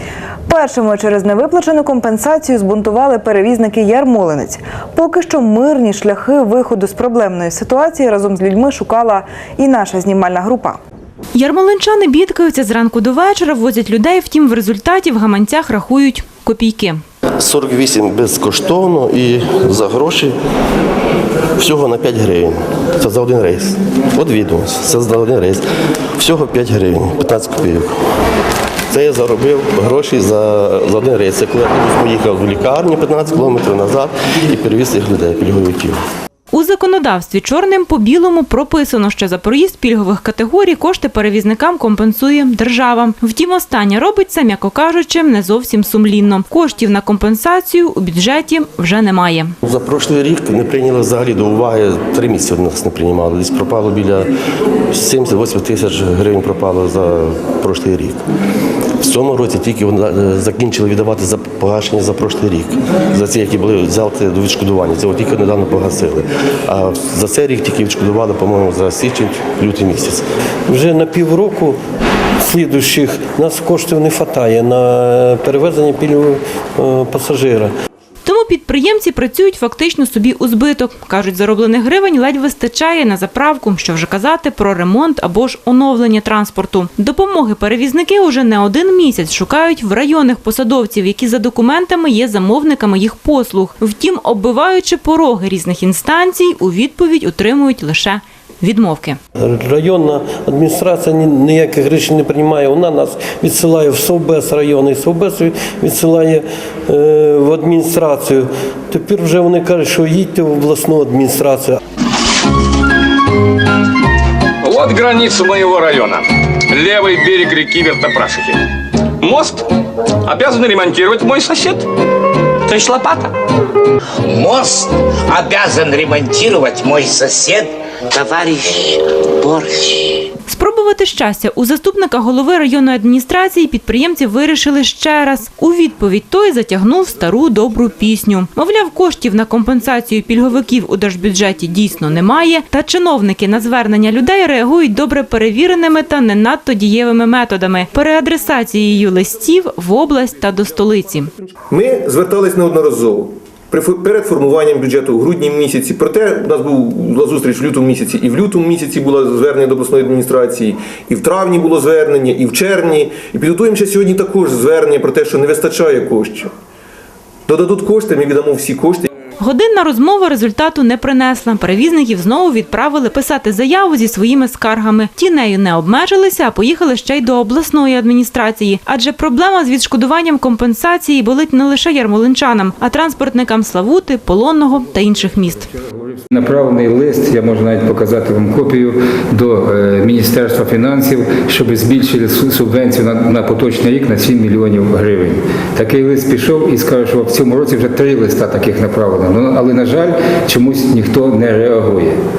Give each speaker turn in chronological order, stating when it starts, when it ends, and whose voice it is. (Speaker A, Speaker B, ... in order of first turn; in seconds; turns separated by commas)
Speaker A: 0.5-10.8, Speaker B: 11.3-17.0, Speaker C: 17.4-20.4, Speaker C: 21.6-25.6, Speaker C: 26.2-27.9, Speaker C: 28.9-36.0, Speaker B: 36.5-49.5, Speaker C: 49.6-54.3, Speaker C: 54.9-58.2, Speaker C: 59.0-70.2, Speaker D: 70.7-71.8, Speaker D: 72.4-77.7, Speaker B: 78.2-99.2, Speaker D: 99.4-111.8, Speaker E: 114.6-118.7, Speaker E: 119.2-119.7, Speaker E: 120.2-121.9, Speaker E: 122.7-123.3, Speaker F: 124.2-130.3, Speaker B: 130.5-151.3, Speaker G: 151.7-166.5, Speaker G: 167.5-169.1, Speaker B: 169.4-185.7, Speaker H: 185.8-202.2